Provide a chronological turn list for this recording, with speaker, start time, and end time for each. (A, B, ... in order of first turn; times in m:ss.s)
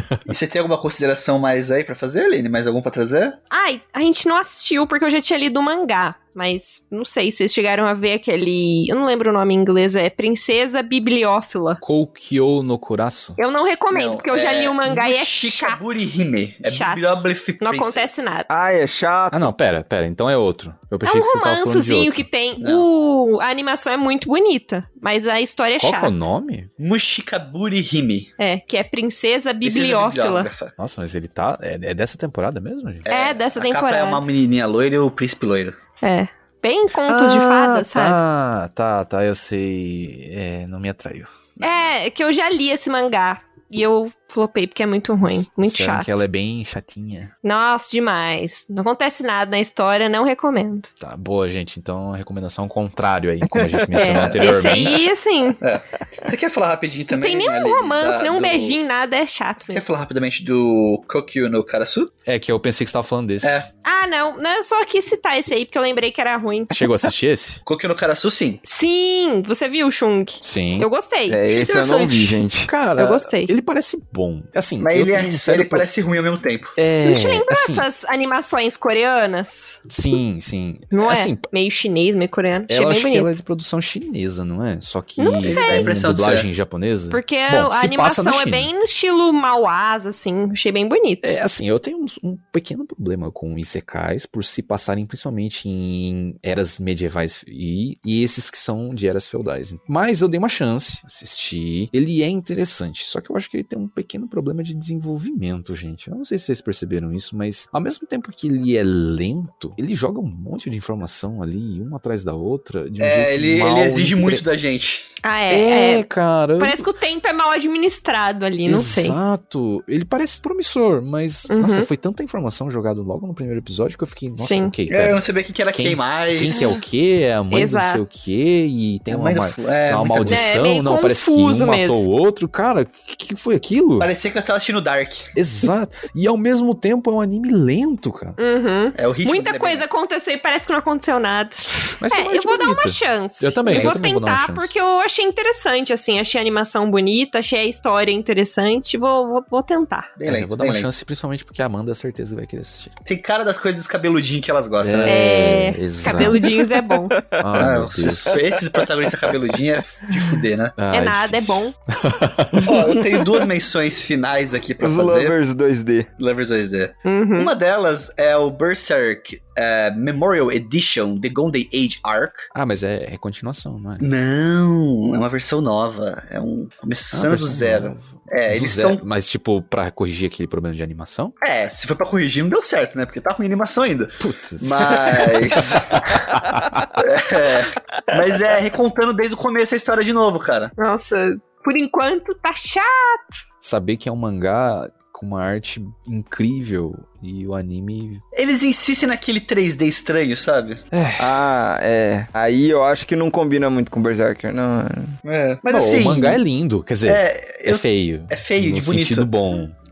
0:00.3-0:03.4 A
0:03.5-0:11.8 B
0:11.8-0:13.4 C
0:13.4-0:15.8 B
0:13.9-0:18.3 A
0:16.6-0:18.5 B
0:18.5-0:19.5 D
0:19.3-0:22.3 C
0:21.0-0:26.1 B
0:22.6-0:22.9 A
0:25.8-0:26.7 C
0:26.8-0:28.3 A
0:28.4-0:30.5 B
0:29.6-0:30.8 A
0:30.8-0:33.1 C
0:33.1-0:35.8 A
0:33.1-0:34.2 B
0:36.0-0:38.2 B
0:37.1-0:41.3 C
0:41.6-0:41.9 A
0:41.6-0:46.2 B
0:45.3-0:47.3 C
0:47.4-0:50.9 B
0:51.0-0:55.1 C
0:53.9-0:55.6 B
0:54.1-0:55.1 A
0:55.6-0:58.8 A
0:57.1-0:59.8 B
0:59.6-1:02.1 A
1:02.3-1:03.7 C
1:03.4-1:03.7 A
1:03.8-1:06.9 B
1:06.7-1:07.6 C
1:07.7-1:08.6 A
1:08.6-1:11.4 B
1:10.4-1:10.9 C
1:11.3-1:12.7 D
1:11.5-1:12.4 A
1:12.7-1:15.9 C
1:13.0-1:13.5 B
1:14.8-1:16.8 A
1:16.8-1:17.9 C
1:17.0-1:19.8 B
1:19.9-1:21.4 C
1:20.9-1:23.3 B
1:22.7-1:28.7 C
1:25.2-1:25.9 B
1:25.4-1:26.5 A
1:27.1-1:31.3 B
1:31.2-1:54.4 C
1:53.0-1:55.1 A
1:55.2-1:56.0 B
1:55.5-1:56.9 C
1:56.6-1:59.2 B
1:58.7-2:14.1 C
2:01.5-2:01.9 B
2:04.4-2:04.7 B
2:04.9-2:06.8 A
2:07.5-2:08.0 B
2:09.1-2:10.5 A
2:10.3-2:12.0 B
2:14.0-2:15.3 A
2:15.4-2:18.4 C
2:18.4-2:30.1 B
2:19.0-2:19.9 A
2:22.0-2:24.8 C
2:23.7-2:24.0 A
2:30.2-2:30.9 A
2:30.2-2:33.0 C
2:33.1-2:35.2 A
2:34.8-2:36.4 C
2:35.1-2:37.2 B
2:36.2-2:37.4 D
2:37.4-2:38.4 C
2:37.6-2:40.8 A
2:38.3-2:39.4 D
2:40.8-2:42.7 C
2:40.9-2:41.8 B
2:42.5-2:43.4 D
2:42.7-2:45.4 A
2:44.8-2:46.1 D
2:46.2-2:52.5 A
2:47.0-2:47.5 B
2:52.5-2:54.1 C
2:54.0-2:59.0 A
2:57.1-3:01.3 C
3:01.4-3:06.2 A
3:04.2-3:06.9 C
3:07.0-3:10.7 A
3:10.8-3:13.4 B
3:13.6-3:18.2 C
3:18.4-3:20.8 A
3:20.9-3:21.4 C
3:21.2-3:25.2 D
3:25.2-3:26.4 A
3:25.7-3:29.8 C
3:27.1-3:29.3 A